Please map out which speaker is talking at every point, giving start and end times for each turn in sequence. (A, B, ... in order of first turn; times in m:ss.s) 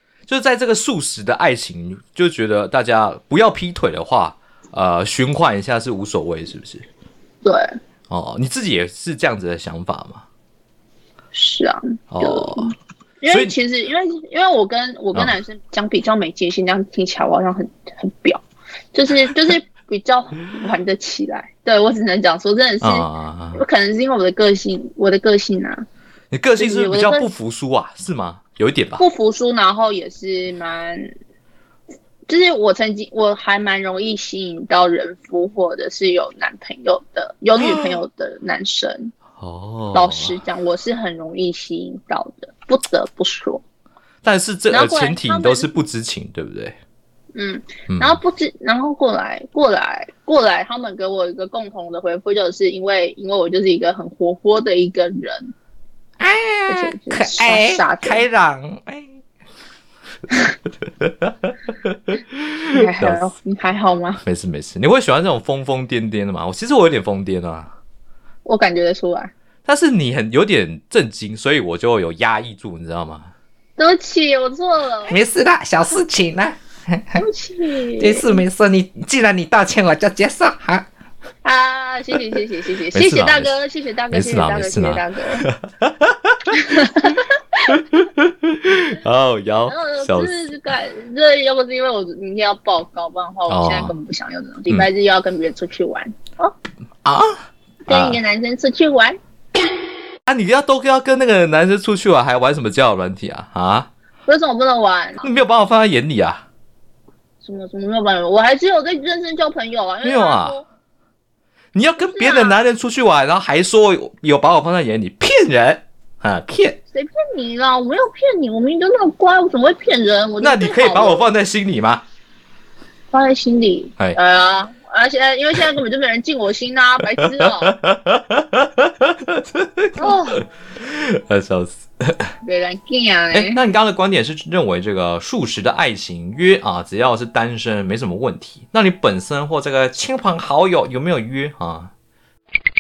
0:00.3-0:06.9 A
0:07.4-0:07.8 B
0:08.1-0:10.2 A
0:11.3-0:18.4 B
0:12.1-0:12.7 A
0:13.3-0:13.5 A
0:18.9-0:25.8 B
0:22.8-0:23.6 A
0:26.3-0:29.0 A
0:26.6-0:27.3 B
0:29.0-0:31.1 B
0:32.3-0:39.1 B
0:39.4-0:40.4 A
0:39.9-0:43.6 B
0:44.2-0:46.7 A
0:44.7-0:45.7 B
0:47.3-0:55.5 B
0:47.9-0:48.2 A
0:56.2-0:59.0 A
0:56.7-0:58.2 B
1:01.0-1:03.3 A
1:02.7-1:04.2 B
1:04.2-1:07.7 A
1:08.4-1:09.3 B
1:09.6-1:13.3 A
1:13.8-1:15.2 B
1:15.1-1:16.5 C
1:17.1-1:18.4 B
1:18.0-1:20.8 C
1:21.4-1:25.4 B
1:22.9-1:23.5 A
1:24.1-1:26.5 A
1:26.5-1:27.7 B
1:27.7-1:30.3 A
1:29.6-1:36.5 B
1:33.5-1:33.9 A
1:37.0-1:37.4 A
1:37.8-1:39.2 B
1:37.9-1:38.2 A
1:40.3-1:43.9 A
1:44.3-1:45.3 B
1:45.2-1:46.4 A
1:47.4-1:50.6 B
1:50.0-1:50.6 A
1:51.7-1:56.8 A
1:52.0-1:52.6 B
1:56.9-2:01.3 B
2:00.4-2:02.0 A
2:03.1-2:07.8 B
2:07.6-2:12.3 A
2:10.0-2:10.4 B
2:12.4-2:13.6 B
2:13.3-2:21.9 A